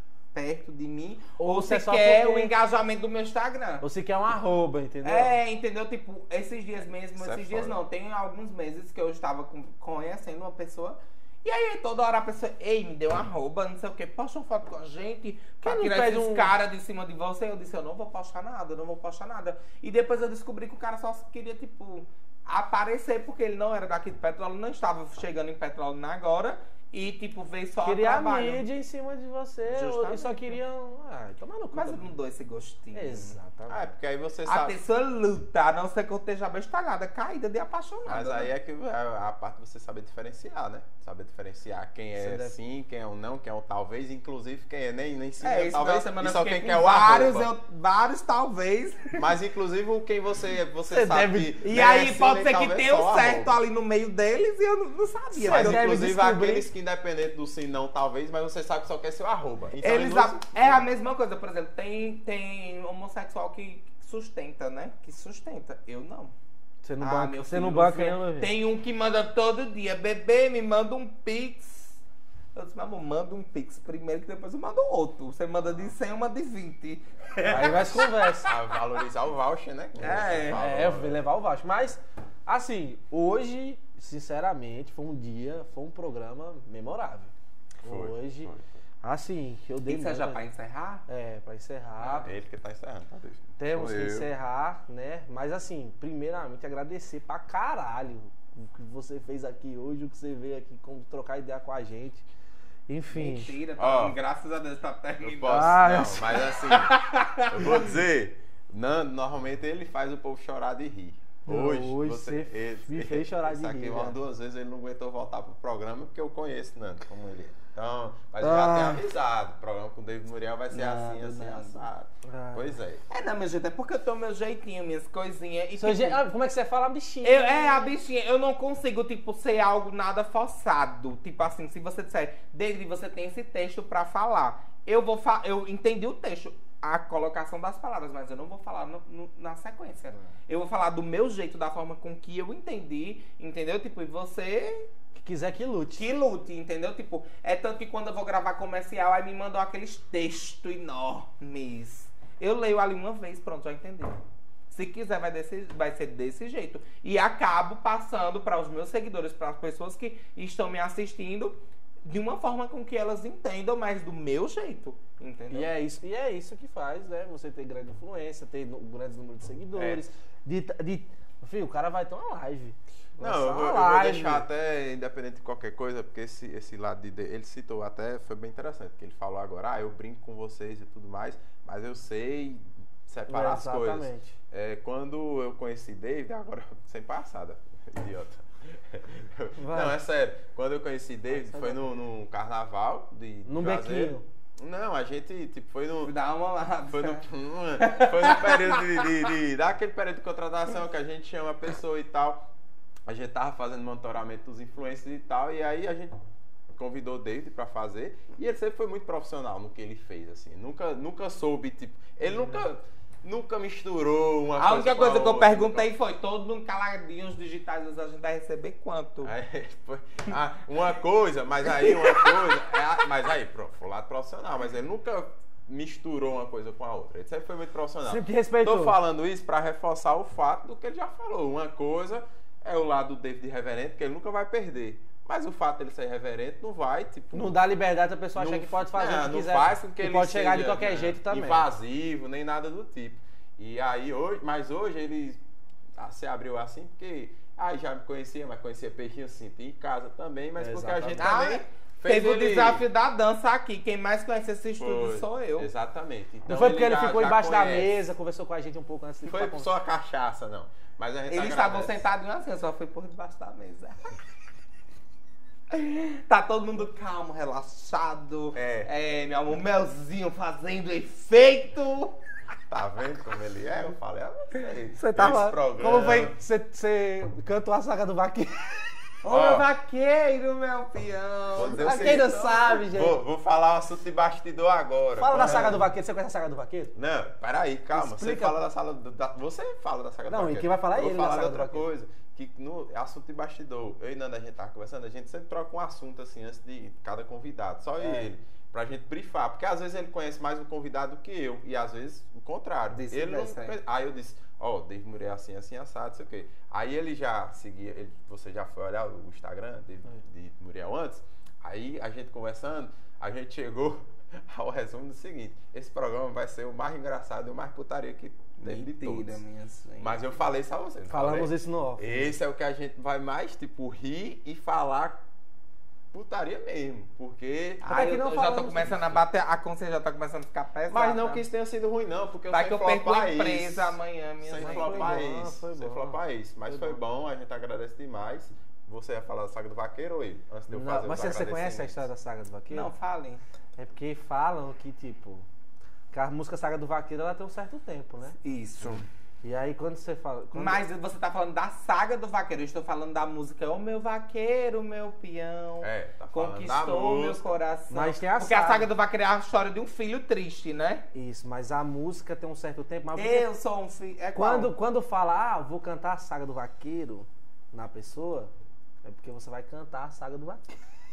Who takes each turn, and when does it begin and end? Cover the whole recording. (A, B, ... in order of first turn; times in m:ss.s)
0:00.3-0:03.8 A
0:01.4-0:02.5 B
0:03.8-0:05.4 B
0:05.0-0:28.6 A
0:07.2-0:07.8 C
0:15.6-0:16.5 B
0:27.8-0:32.1 B
0:29.7-0:30.6 A
0:31.7-0:33.4 A
0:32.9-0:33.9 B
0:33.7-0:34.8 C
0:34.5-0:38.5 A
0:38.1-0:47.5 C
0:42.2-0:42.6 B
0:45.4-0:49.2 A
0:49.2-0:53.6 C
0:50.9-0:51.6 B
0:51.6-0:56.0 A
0:55.4-0:56.7 B
0:55.4-1:00.8 C
0:59.8-1:06.3 A
1:06.8-1:08.5 B
1:07.0-1:12.0 A
1:12.6-1:18.6 A
1:17.4-1:18.5 B
1:18.4-1:21.2 C
1:20.0-1:20.6 A
1:20.5-1:27.3 B
1:27.8-1:28.5 B
1:27.8-1:28.6 C
1:29.0-1:30.4 B
1:29.9-1:31.0 A
1:31.1-1:32.3 B
1:32.0-1:32.3 A
1:32.2-1:34.3 C
1:33.6-1:42.2 B
1:42.9-1:43.5 B
1:43.1-1:47.7 A
1:43.8-1:44.2 C
1:45.2-2:03.0 C
1:45.4-1:46.3 B
1:51.5-1:54.2 B
1:58.4-1:59.0 B
2:00.7-2:01.8 A
2:02.2-2:02.7 B
2:03.1-2:06.2 A
2:05.8-2:07.9 B
2:07.2-2:24.9 A
2:25.2-2:26.1 B
2:26.0-2:34.2 A
2:34.7-2:45.7 A
2:45.5-2:54.4 B
2:49.8-2:50.0 C
2:53.2-3:16.1 C
3:03.3-3:04.4 B
3:09.6-3:10.0 B
3:11.3-3:11.8 B
3:13.4-3:14.2 B
3:16.0-3:17.3 A
3:16.9-3:22.5 C
3:17.8-3:19.2 A
3:23.1-3:26.2 C
3:26.8-3:35.9 C
3:34.6-3:39.3 A
3:39.2-3:57.6 C
3:41.8-3:42.6 A
3:48.1-3:49.0 B
3:57.3-4:01.7 B
3:58.4-4:05.4 C
4:06.0-4:12.9 C
4:10.6-4:11.3 B
4:11.2-4:15.7 A
4:14.8-4:18.0 C
4:16.5-4:19.7 B
4:19.3-4:22.0 C
4:21.3-4:24.0 A
4:25.7-4:32.2 A
4:28.6-4:28.9 C
4:32.7-4:36.3 C
4:35.0-4:39.0 B
4:39.2-4:42.8 A
4:39.3-4:39.7 C
4:41.5-4:45.9 C
4:41.6-4:43.2 B
4:45.2-4:47.0 B
4:47.0-5:19.4 C
4:47.9-4:48.6 B
4:50.3-4:51.9 B
4:58.0-4:58.3 B
5:02.9-5:03.8 A
5:18.6-5:20.4 A
5:20.0-5:25.2 C
5:21.1-5:22.4 B
5:26.1-5:28.2 C
5:27.8-5:31.4 A
5:27.8-5:29.1 B
5:30.9-5:42.0 C
5:32.5-5:35.2 A
5:34.6-5:37.0 B
5:40.7-5:42.9 B
5:42.7-5:43.4 A
5:43.8-5:45.5 B
5:46.1-5:48.4 B
5:48.4-5:49.1 A
5:49.4-5:50.8 B
5:50.5-6:01.0 A
5:55.8-5:57.5 C
5:57.9-5:58.9 B
6:01.1-6:03.5 B
6:03.2-6:04.7 A
6:04.4-6:08.5 B
6:09.0-6:10.7 B